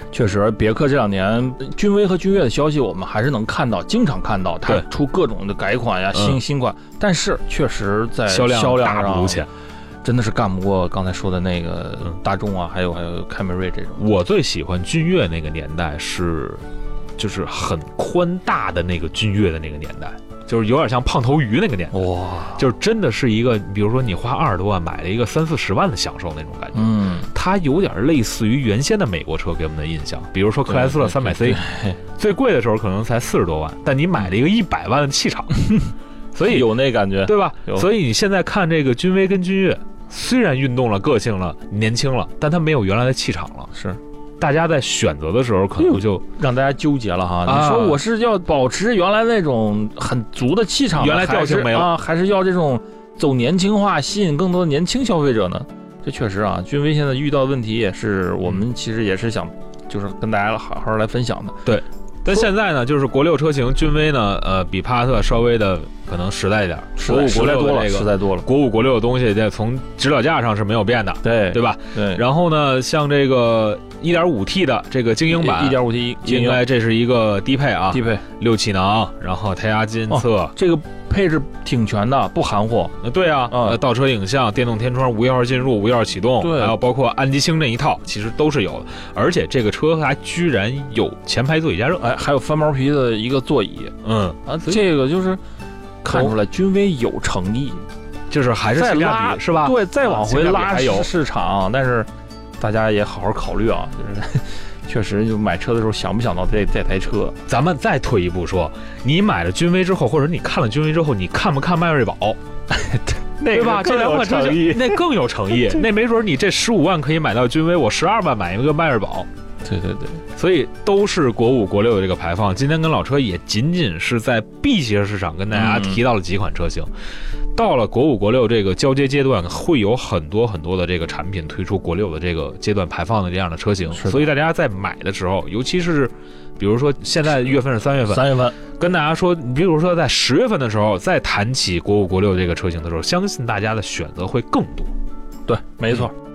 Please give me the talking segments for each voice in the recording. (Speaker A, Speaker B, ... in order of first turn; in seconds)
Speaker A: 0.1-9.4, 10.0-14.1, 21.9-22.6, 26.7-27.3, 30.7-32.0, 36.4-37.9, 43.7-44.0, 45.8-61.7, 67.0-68.5, 71.2-72.2, 75.3-76.6, 77.9-78.2, 80.1-83.0, 83.5-83.8, 86.4-86.8, 92.0-95.4, 96.0-97.9, 98.7-107.4, 112.8-115.0, 119.6-120.2, 125.5-126.0, 133.9-134.3, 138.1-138.6, 145.4-146.1
Speaker B: 6.1-6.4, 8.3-9.5, 14.0-16.6, 17.2-22.0, 22.5-31.6, 32.1-35.6, 36.3-36.7, 37.2-43.7, 44.4-46.2, 47.4-48.0, 50.9-51.9, 61.6-80.5, 83.0-92.0, 94.0-94.8, 98.3-101.1, 107.5-112.4, 113.5-119.3, 120.3-126.9, 127.5-144.9